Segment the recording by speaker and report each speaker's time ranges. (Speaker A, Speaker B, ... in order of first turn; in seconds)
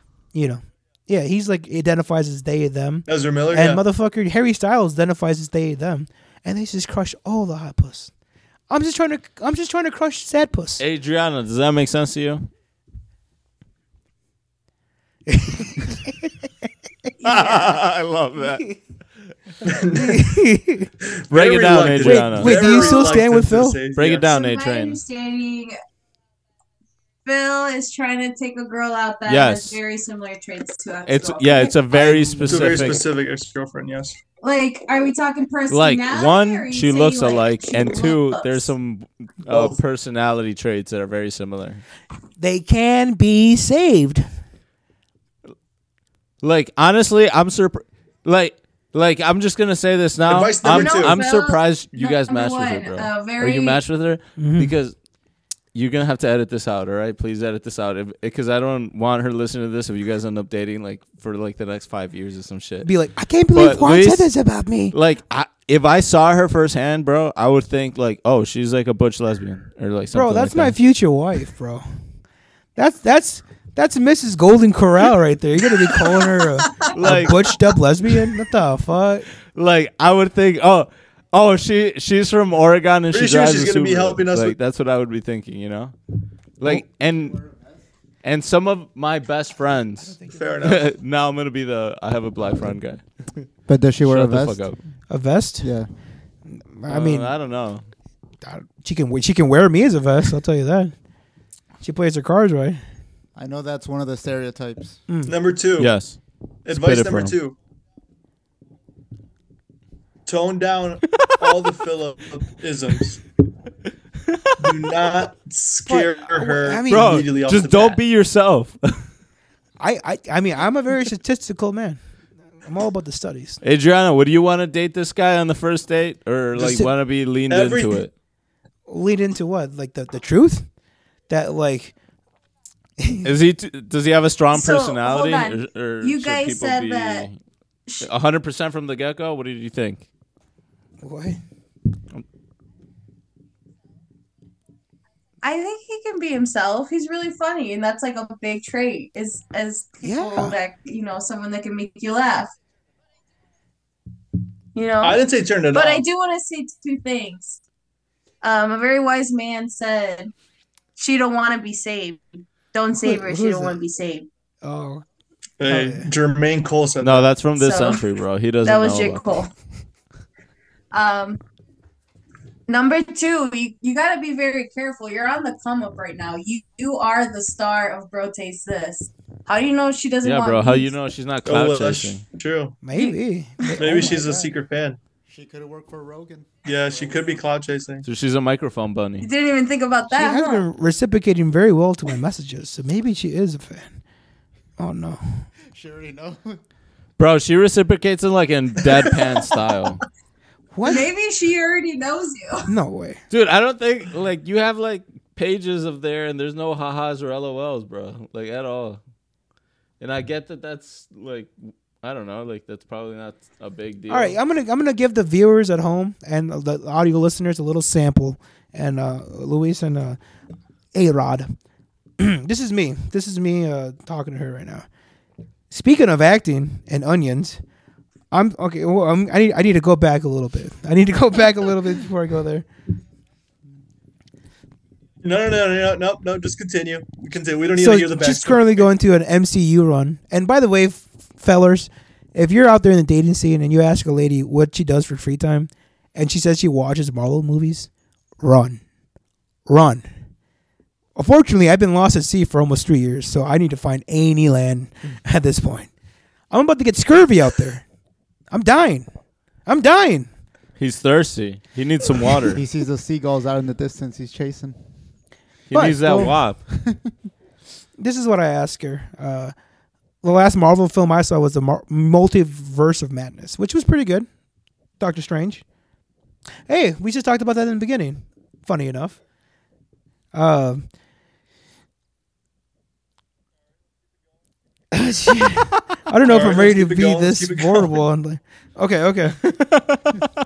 Speaker A: 0.3-8.1, 8.7-10.8, 15.3-16.1, 19.9-20.9, 22.0-23.8, 42.4-44.3, 54.4-54.7, 62.8-64.9, 70.1-71.8, 72.8-79.3, 90.1-90.7, 95.1-95.7, 96.6-97.3, 98.4-100.9, 101.8-102.8, 105.1-105.3, 115.9-117.3, 119.8-122.0, 122.6-123.6, 126.5-126.9, 128.9-130.7, 131.3-131.9, 133.0-133.3, 141.0-141.4, 150.0-150.6, 162.9-163.8, 164.6-165.0, 165.6-166.1, 182.8-184.5, 190.1-193.9, 194.8-195.4, 200.7-201.1, 202.7-203.2, 214.1-220.2, 220.9-221.5, 222.2-224.8, 225.7-227.6, 228.3-232.7, 237.8-247.9, 248.4-248.8, 249.7-250.1, 251.2-255.9, 256.5-257.8, 258.5-259.1, 259.6-260.3, 265.7-266.0, 268.0-269.5, 270.2-274.3, 275.0-275.6, 276.7-279.2, 280.3-280.9, 284.9-289.4
Speaker B: 3.1-3.8, 19.6-20.2, 21.3-24.3, 31.9-34.2, 39.5-39.8, 50.2-51.2, 83.1-84.5, 90.3-90.9, 105.2-105.9, 106.7-107.5, 110.2-113.2, 114.6-118.0, 127.5-128.0, 155.0-156.1, 165.6-167.3, 181.4-182.8, 183.8-185.0, 186.6-188.0, 235.2-238.9, 286.2-288.0
Speaker C: 10.8-12.5, 17.2-18.6, 21.3-22.8, 23.9-25.0, 29.2-29.8, 31.1-33.1, 35.7-41.8, 46.4-54.9, 55.7-62.9, 63.5-64.3, 64.9-70.8, 76.9-77.5, 79.5-85.9, 86.6-87.4, 88.2-93.0, 94.0-94.8, 96.9-97.8, 105.8-107.3, 114.3-114.5, 116.9-119.1, 123.6-128.1, 133.2-137.3, 138.0-140.1, 167.0-169.4, 180.2-182.2, 188.0-189.3, 197.2-200.0, 203.3-209.0, 210.0-214.4, 260.8-262.6, 265.7-266.6, 289.4-290.3
Speaker D: 17.2-17.6, 24.2-25.8, 27.2-32.0, 34.4-38.7, 50.6-53.8, 76.6-77.3, 134.5-137.3, 145.4-152.5, 154.7-155.2, 155.7-157.6, 158.4-160.3, 160.9-164.3, 167.6-168.0, 168.6-169.5, 170.9-171.4, 172.7-180.9, 182.9-183.7, 189.2-190.7, 200.8-202.7
Speaker E: 87.0-87.8, 93.7-94.6, 95.6-95.9, 103.3-105.0, 185.3-187.4, 195.7-196.6, 262.5-264.8, 266.0-267.1